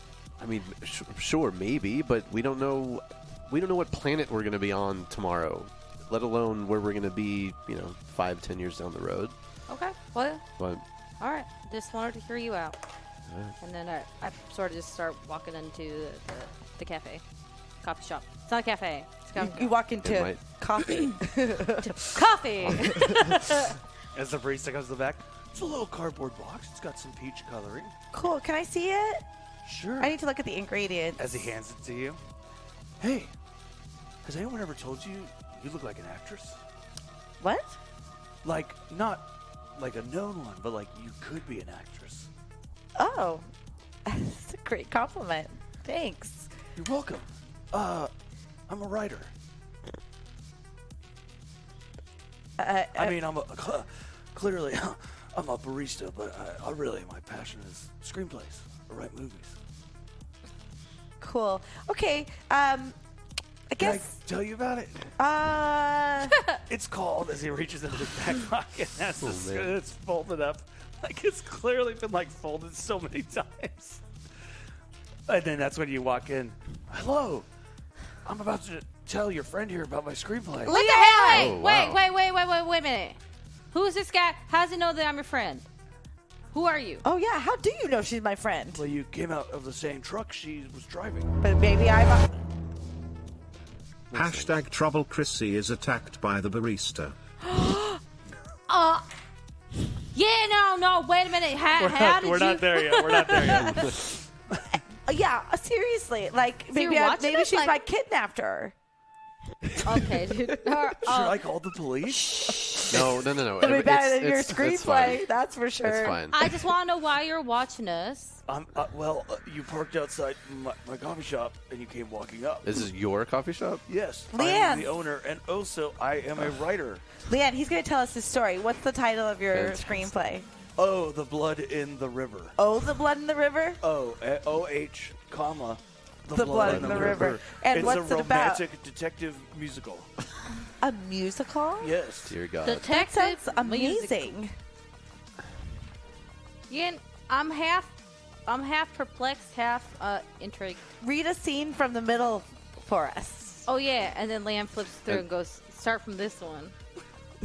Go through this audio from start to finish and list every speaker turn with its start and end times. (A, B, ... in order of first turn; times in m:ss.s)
0:00.4-0:09.3 A
0:09.7-0:10.4 B
0:10.6-0:10.8 A
0:11.2-0:12.8 B
0:13.3-0:13.5 A
0:13.6-0:17.2 B
0:17.8-0:19.7 B
0:19.3-0:22.1 C
0:20.0-0:20.4 A
0:21.8-0:23.8 B
0:24.1-0:27.9 D
0:28.1-0:29.2 C
0:29.6-0:30.1 D
0:30.0-0:31.2 C
0:31.2-0:32.2 D
0:33.0-0:33.3 D
0:34.2-0:36.6 D
0:37.4-0:37.8 C
0:38.4-0:42.3 D
0:43.0-0:43.5 C
0:44.0-0:46.5 C
0:46.8-0:48.1 D
0:48.7-0:49.3 D
0:52.6-0:53.2 C
0:53.0-0:59.6 D
1:01.2-1:03.0 C
1:03.7-1:04.1 C
1:03.8-1:05.1 D
1:05.2-1:06.4 C
1:06.7-1:14.0 D
1:09.2-1:09.7 A
1:15.3-1:17.5 D
1:18.2-1:20.8 D
1:20.6-1:21.6 C
1:20.6-1:23.2 B
1:21.3-1:22.0 A
1:23.7-1:25.6 B
1:26.5-1:27.0 B
1:27.0-1:28.8 C
1:28.7-1:31.3 D
1:31.4-1:32.4 C
1:34.1-1:37.1 E
1:37.4-1:38.0 C
1:38.7-1:39.0 B
1:40.1-1:43.9 B
1:41.8-1:44.6 D
1:45.0-1:48.7 C
1:46.7-1:47.8 B
1:49.8-1:51.4 B
1:51.0-1:52.6 D
1:52.1-1:56.2 C
1:52.9-1:55.3 A
1:55.8-1:56.4 A
1:56.3-1:58.4 B
1:58.5-2:02.7 D
2:02.6-2:03.8 A
2:03.9-2:07.0 D
2:04.3-2:04.9 C
2:07.3-2:10.5 C
2:09.5-2:10.2 A
2:10.8-2:12.6 D
2:12.6-2:13.8 C
2:13.8-2:20.1 D
2:16.3-2:18.6 C
2:16.6-2:17.4 A
2:20.8-2:22.0 C
2:21.8-2:22.3 D
2:22.2-2:22.8 A
2:22.6-2:24.4 B
2:22.8-2:24.5 C
2:26.7-2:28.0 B
2:28.5-2:30.8 B
2:31.0-2:33.6 C
2:33.6-2:36.7 B